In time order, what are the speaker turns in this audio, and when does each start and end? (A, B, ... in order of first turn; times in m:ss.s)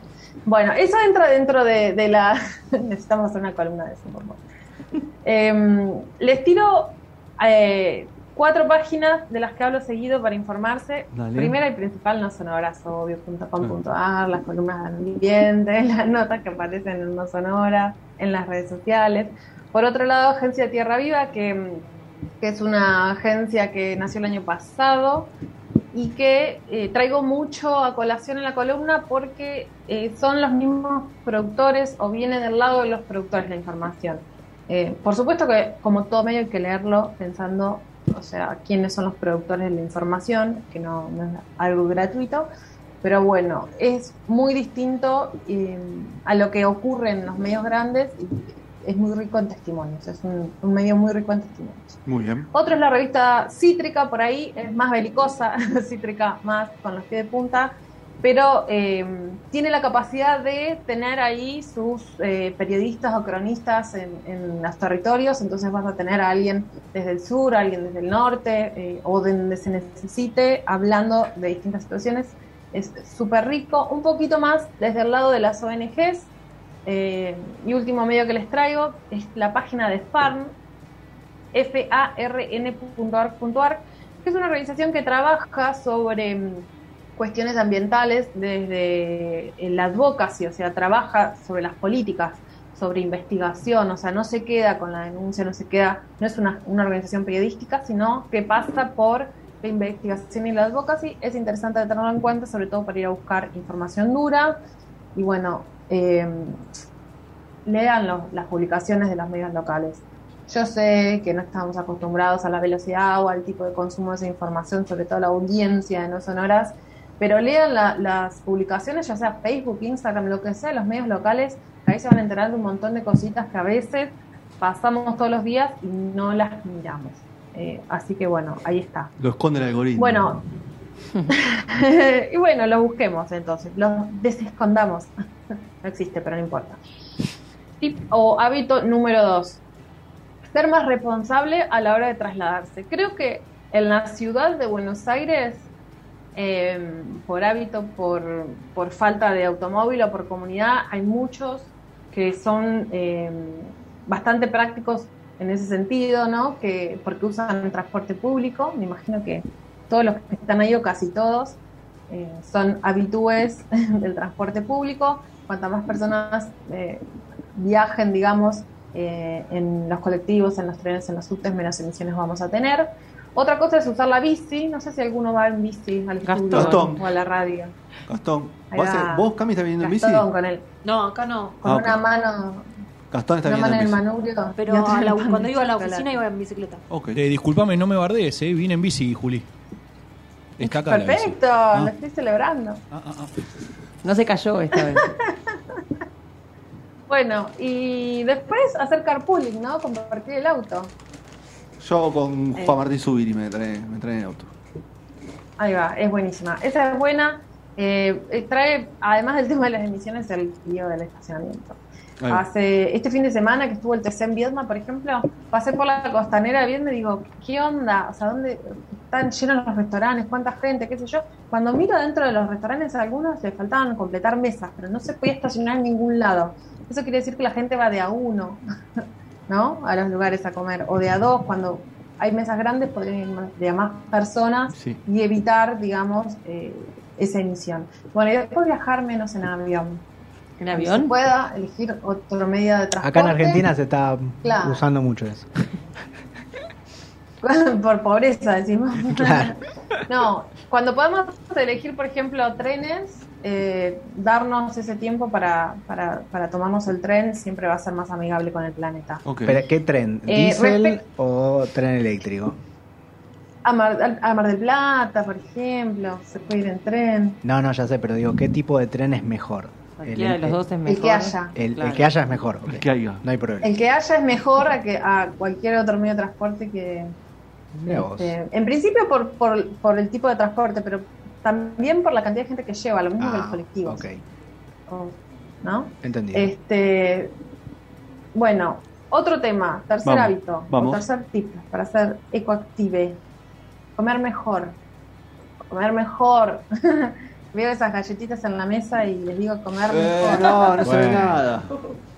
0:00.4-0:04.4 A
0:05.2-0:21.8 A
0:11.1-0:11.6 B
0:22.4-0:25.3 A
0:25.9-0:42.5 A
0:43.0-0:52.0 A
0:52.0-0:52.5 B
0:52.5-1:16.3 A
1:16.8-1:20.5 A
1:21.5-1:44.6 A
1:45.1-1:46.6 A
1:47.6-2:09.1 A
2:09.2-2:10.3 B
2:10.0-2:10.4 A
2:11.3-2:15.1 A
2:15.8-2:16.8 A
2:17.8-2:19.6 A
2:20.5-2:25.7 A
2:26.3-2:41.6 A
2:42.1-2:47.0 A
2:47.5-2:57.7 A
2:56.2-2:56.9 C
2:56.5-2:57.0 B
2:58.1-3:00.2 B
2:58.7-3:00.6 A
3:00.8-3:01.6 D
3:01.6-3:02.7 A
3:01.6-3:02.0 B
3:03.1-3:04.0 B
3:03.4-3:06.1 A
3:04.6-3:06.8 D
3:06.9-3:07.2 B
3:07.1-3:09.4 E
3:10.6-3:11.9 E
3:10.6-3:12.8 A
3:12.9-3:13.3 E
3:14.0-3:15.1 C
3:15.0-3:15.4 A
3:17.1-3:20.9 A
3:21.8-3:24.5 B
3:25.6-3:48.6 A
3:49.5-4:00.0 A
3:54.7-3:55.0 B
4:00.6-4:01.1 C
4:00.7-4:03.6 A
4:03.0-4:05.5 F
4:04.4-4:04.8 A
4:07.4-4:19.2 A
4:09.1-4:09.5 F
4:19.2-4:19.6 B
4:19.4-4:22.6 F
4:20.3-4:21.0 A
4:23.6-4:27.4 A
4:27.4-4:30.6 F
4:30.0-4:32.1 C
4:30.8-4:31.5 A
4:31.6-4:33.7 F
4:32.7-4:33.2 B
4:33.6-4:37.1 A
4:37.7-4:38.4 F
4:37.9-4:44.0 A
4:43.2-4:44.2 F
4:44.9-4:47.3 A
4:46.0-4:46.5 F
4:48.3-4:53.2 A
4:50.0-4:51.0 B
4:54.0-4:54.8 A
4:55.7-5:00.8 A
4:59.9-5:01.7 B
5:00.8-5:01.4 F